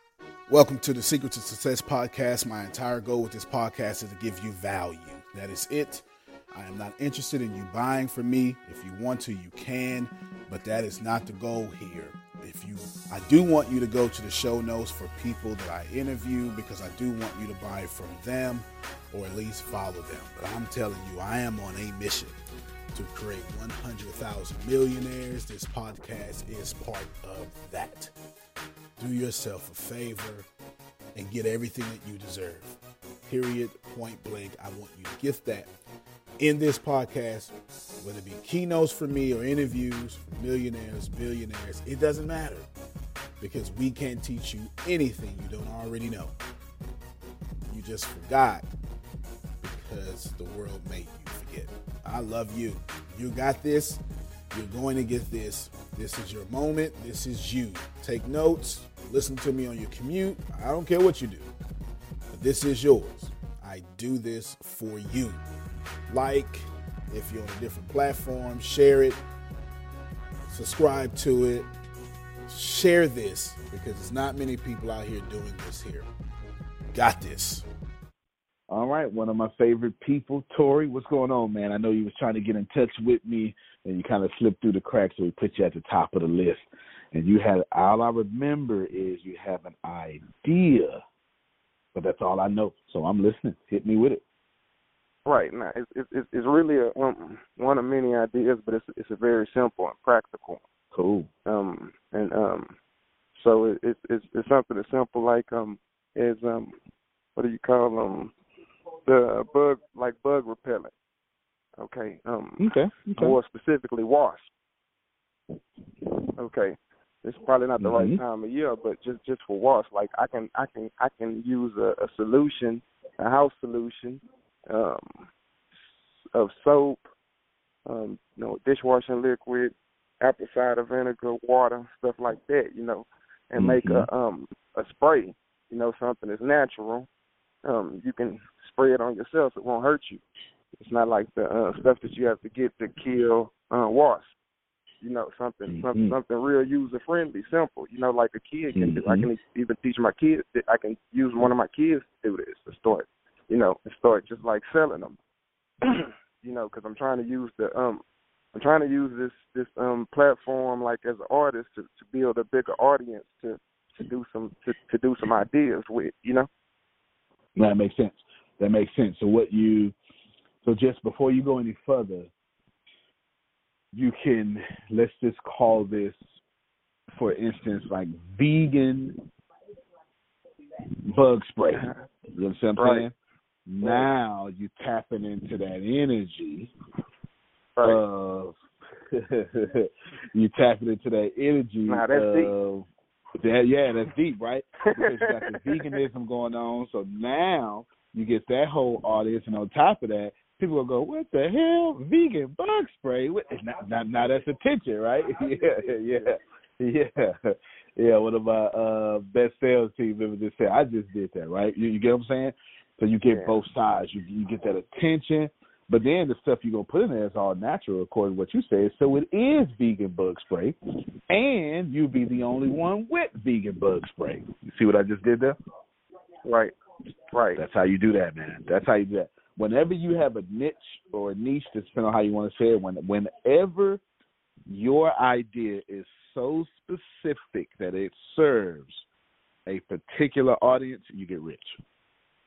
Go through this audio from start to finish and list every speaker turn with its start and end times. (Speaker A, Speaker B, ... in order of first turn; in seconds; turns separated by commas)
Speaker A: 0.5-22.4, Speaker A: 22.9-28.1, Speaker A: 29.0-30.5, Speaker A: 31.1-35.7, Speaker A: 36.4-42.7, Speaker A: 43.4-46.3, Speaker A: 47.7-48.7, Speaker A: 49.6-54.0, Speaker A: 54.5-61.5, Speaker A: 62.3-65.4, Speaker A: 66.1-69.2, Speaker A: 70.5-71.7, Speaker A: 72.5-76.1, Speaker A: 76.9-77.7, Speaker B: 78.7-91.0, Speaker B: 91.9-94.2, Speaker C: 95.2-100.6, Speaker B: 100.9-101.3, Speaker C: 101.5-102.7, Speaker C: 103.3-106.7, Speaker C: 107.3-108.3, Speaker C: 109.0-110.9, Speaker C: 111.8-114.5, Speaker B: 112.6-113.3, Speaker C: 116.4-125.3, Speaker B: 117.8-118.2, Speaker C: 126.3-127.0, Speaker C: 127.8-137.1, Speaker B: 133.6-134.1, Speaker C: 137.6-140.2, Speaker C: 140.8-144.3, Speaker C: 145.0-155.2, Speaker B: 145.7-146.2, Speaker B: 148.7-149.3, Speaker C: 155.8-158.0, Speaker C: 158.5-166.5, Speaker B: 167.6-169.9, Speaker B: 170.6-172.3, Speaker B: 173.9-176.2, Speaker B: 177.2-179.2, Speaker B: 181.0-183.1, Speaker C: 181.7-182.0, Speaker C: 182.8-183.1, Speaker B: 183.7-186.7, Speaker C: 183.8-184.1, Speaker B: 187.8-192.9, Speaker C: 191.9-192.5, Speaker B: 193.4-220.8, Speaker C: 195.0-195.9, Speaker C: 205.2-206.3, Speaker C: 213.3-213.6, Speaker B: 221.3-225.6, Speaker C: 226.4-226.7, Speaker C: 227.3-227.6, Speaker B: 227.6-234.0, Speaker B: 234.7-239.1, Speaker B: 239.7-241.8